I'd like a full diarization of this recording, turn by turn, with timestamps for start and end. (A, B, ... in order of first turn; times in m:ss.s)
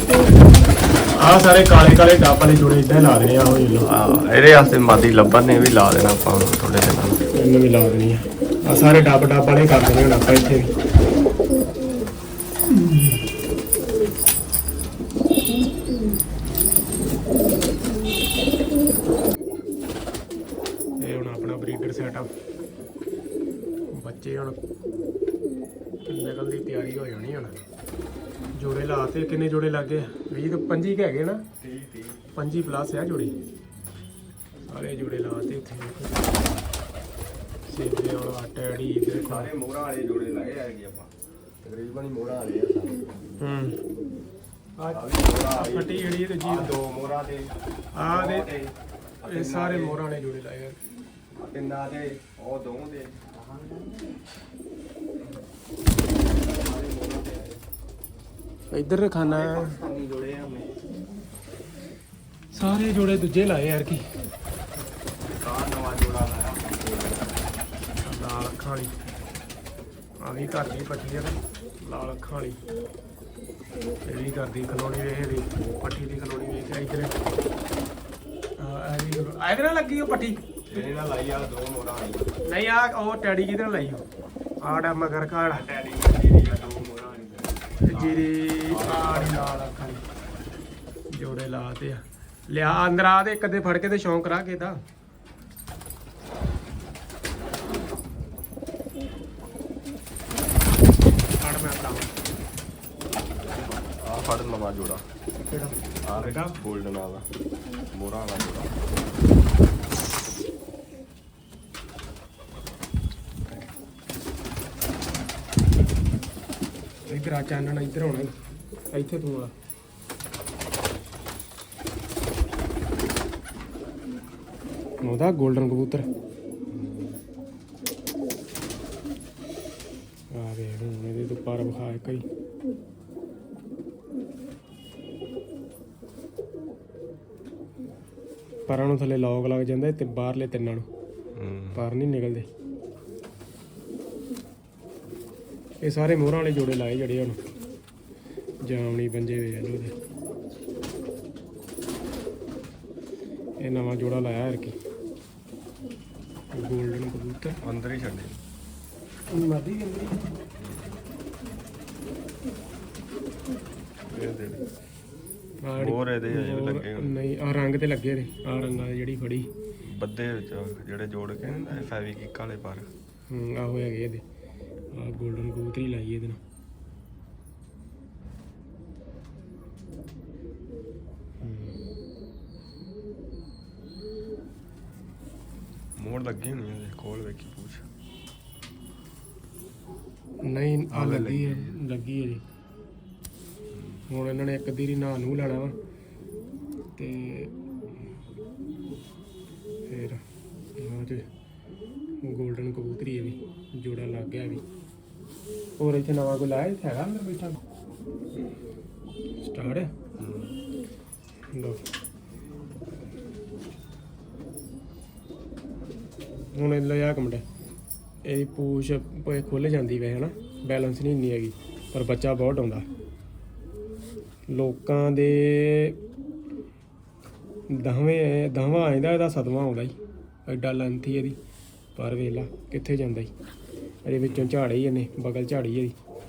0:01.2-0:03.9 A
0:03.8-0:07.2 B
0:07.3-0:10.7 A
0:12.7-0:13.2 A
0:21.0-0:22.3 A
0:23.9-0:24.6 A
0:26.1-0:27.5 A
0:28.6-0:31.4 A
0:31.6-0:32.3 B
0:32.4-0:33.4 A
0:34.7-0:36.3 A
0:37.7-0:39.5 A
0:39.1-0:41.1 B
0:41.6-0:43.4 B
0:43.4-0:43.8 A
0:44.8-0:46.7 A
0:44.9-0:50.0 B
0:47.9-0:48.5 A
0:49.2-0:50.8 A
0:51.3-0:53.9 B
0:56.3-0:57.6 B
0:58.7-0:59.8 A
0:59.2-1:00.8 B
1:02.5-1:04.1 A
1:05.3-1:07.5 B
1:08.0-1:08.9 A
1:10.2-1:12.6 A
1:14.0-1:17.2 A
1:18.6-1:20.4 A
1:20.7-1:22.3 B
1:22.4-1:24.0 A
1:24.6-1:25.6 A
1:25.5-1:29.6 B
1:27.8-1:30.0 A
1:31.1-1:34.8 A
1:41.4-1:42.1 A
1:44.0-1:45.0 B
1:45.4-1:46.6 A
1:46.0-1:47.2 B
1:47.9-1:48.8 B
1:57.1-1:58.3 A
1:58.9-1:59.5 A
2:05.0-2:06.0 A
2:06.7-2:07.2 B
2:10.3-2:12.2 A
2:18.7-2:20.9 A
2:21.3-2:21.8 B
2:21.7-2:22.4 A
2:25.8-2:27.4 A
2:28.6-2:30.0 A
2:33.6-2:34.7 A
2:36.5-2:37.6 A
2:37.6-2:38.4 B
2:39.3-2:40.3 A
2:40.6-2:41.0 B
2:44.1-2:44.7 B
2:45.6-2:49.5 A
2:45.8-2:47.2 B
2:49.9-2:52.9 B
2:53.3-2:54.2 A
2:54.9-2:56.4 A
3:01.4-3:01.8 A
3:06.0-3:07.8 B
3:10.4-3:12.4 A
3:10.9-3:11.8 B
3:13.7-3:14.0 B
3:14.1-3:15.7 A
3:17.0-3:17.5 A
3:19.9-3:20.2 A
3:20.8-3:21.2 A
3:22.2-3:24.6 A
3:25.8-3:27.6 A
3:29.4-3:29.9 A
3:30.2-3:30.6 B
3:31.5-3:31.8 A
3:36.5-3:37.4 A
3:38.2-3:42.9 A
3:44.5-3:46.0 A
3:47.7-3:49.9 A
3:50.4-3:51.4 A
3:52.0-3:53.3 A
3:54.0-3:55.9 A
3:54.3-3:54.5 B